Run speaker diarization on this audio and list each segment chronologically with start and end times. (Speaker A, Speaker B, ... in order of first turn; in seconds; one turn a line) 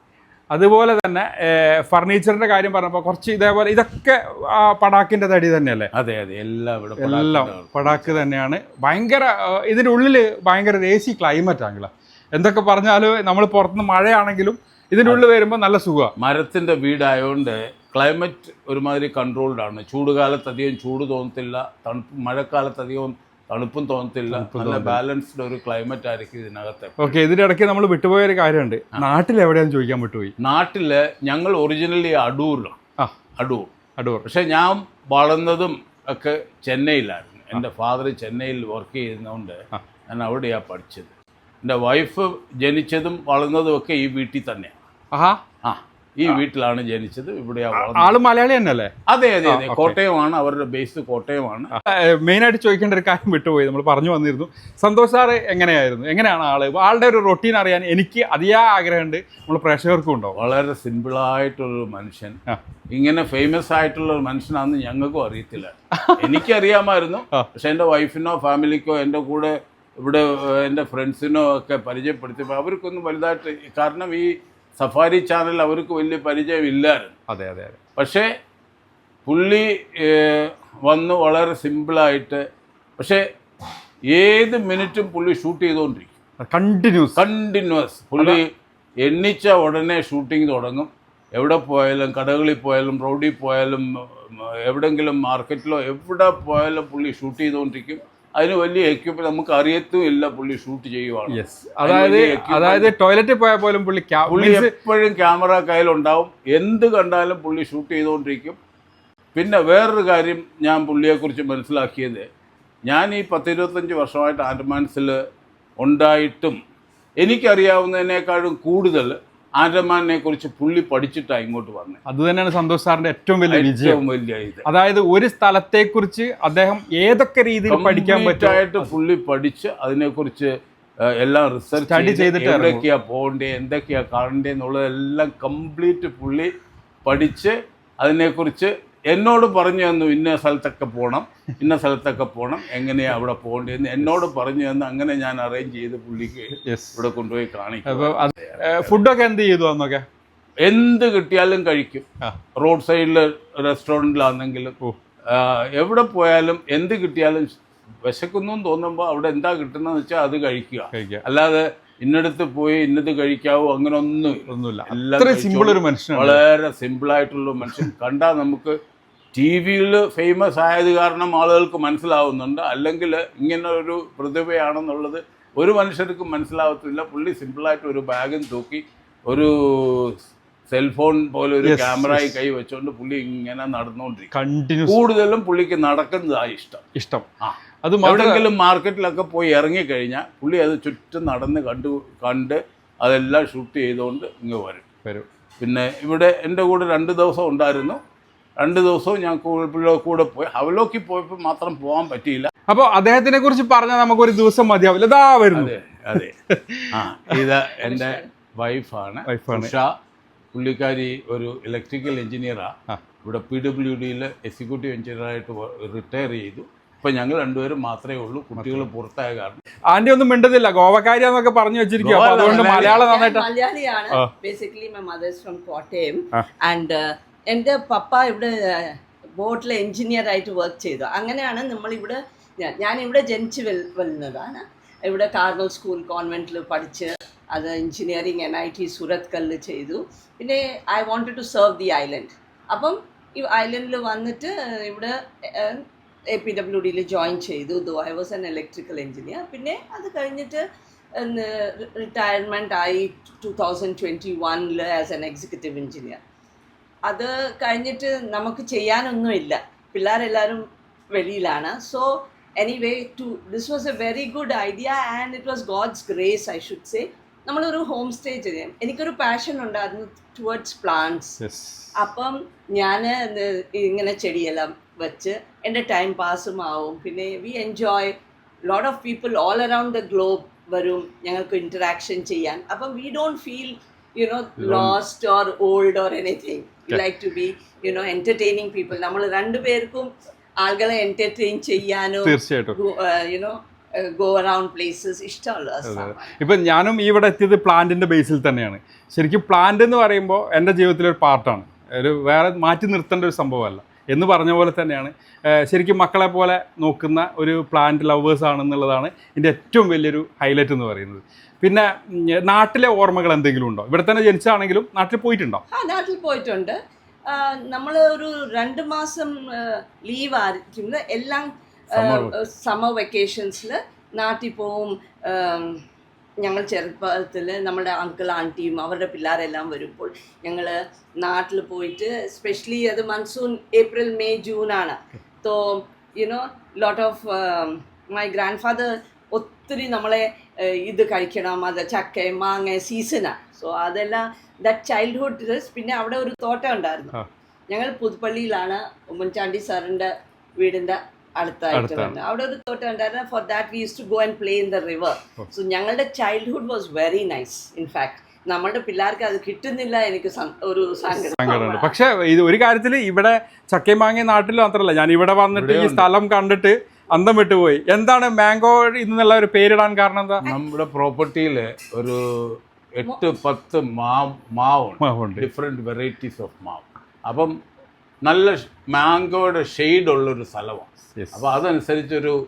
Speaker A: 0.5-5.9
Speaker B: 5.9-8.2
Speaker A: 7.0-16.1
Speaker B: 16.2-27.1
Speaker A: 24.3-25.0
Speaker A: 27.0-30.3
Speaker B: 30.4-32.8
Speaker B: 33.4-33.7
Speaker A: 34.0-34.2
Speaker B: 34.2-44.7
Speaker A: 45.1-45.4
Speaker B: 45.6-48.2
Speaker A: 47.8-48.9
Speaker B: 49.1-51.7
Speaker A: 49.4-50.0
Speaker A: 51.7-60.4
Speaker B: 60.3-77.2
Speaker A: 65.9-66.4
Speaker A: 77.3-77.8
Speaker B: 78.0-78.3
Speaker B: 79.2-82.4
Speaker B: 83.0-83.2
Speaker B: 84.1-86.1
Speaker A: 86.4-87.2
Speaker B: 87.2-88.5
Speaker B: 89.0-102.9
Speaker A: 101.3-104.7
Speaker B: 104.3-108.6
Speaker B: 109.3-112.2
Speaker B: 112.9-115.2
Speaker B: 115.8-116.6
Speaker B: 117.2-122.0
Speaker A: 122.0-124.0
Speaker B: 123.5-124.7
Speaker A: 124.7-128.9
Speaker B: 127.7-136.5
Speaker A: 131.8-132.8
Speaker B: 137.0-148.9
Speaker A: 146.6-147.0
Speaker A: 147.8-150.0
Speaker B: 150.6-168.8
Speaker A: 160.9-161.2
Speaker A: 164.5-166.4
Speaker B: 169.3-184.3
Speaker A: 181.6-182.4
Speaker A: 184.3-185.0
Speaker B: 184.8-186.9
Speaker A: 186.9-187.3
Speaker B: 187.4-194.8
Speaker A: 187.8-188.4
Speaker B: 195.6-198.0
Speaker B: 198.6-202.5
Speaker A: 202.7-207.4
Speaker B: 205.5-206.3
Speaker B: 206.9-209.9
Speaker C: 207.8-208.2
Speaker A: 209.3-209.7
Speaker B: 210.5-219.6
Speaker A: 218.6-218.8
Speaker A: 219.9-223.4
Speaker B: 222.0-223.0
Speaker C: 222.4-256.2
Speaker C: 257.1-271.4
Speaker A: 271.4-271.9
Speaker C: 271.9-278.1
Speaker C: 278.6-296.3
Speaker A: 284.6-285.0
Speaker A: 292.2-292.8
Speaker A: 295.8-315.6
Speaker C: 315.7-325.8
Speaker B: 321.9-322.3
Speaker C: 326.4-347.1
Speaker C: 347.7-361.9
Speaker A: 351.7-352.1
Speaker A: 361.3-370.4
Speaker B: 365.5-366.1
Speaker B: 370.4-377.6
Speaker A: 375.0-375.4
Speaker B: 378.2-382.4
Speaker A: 381.1-381.4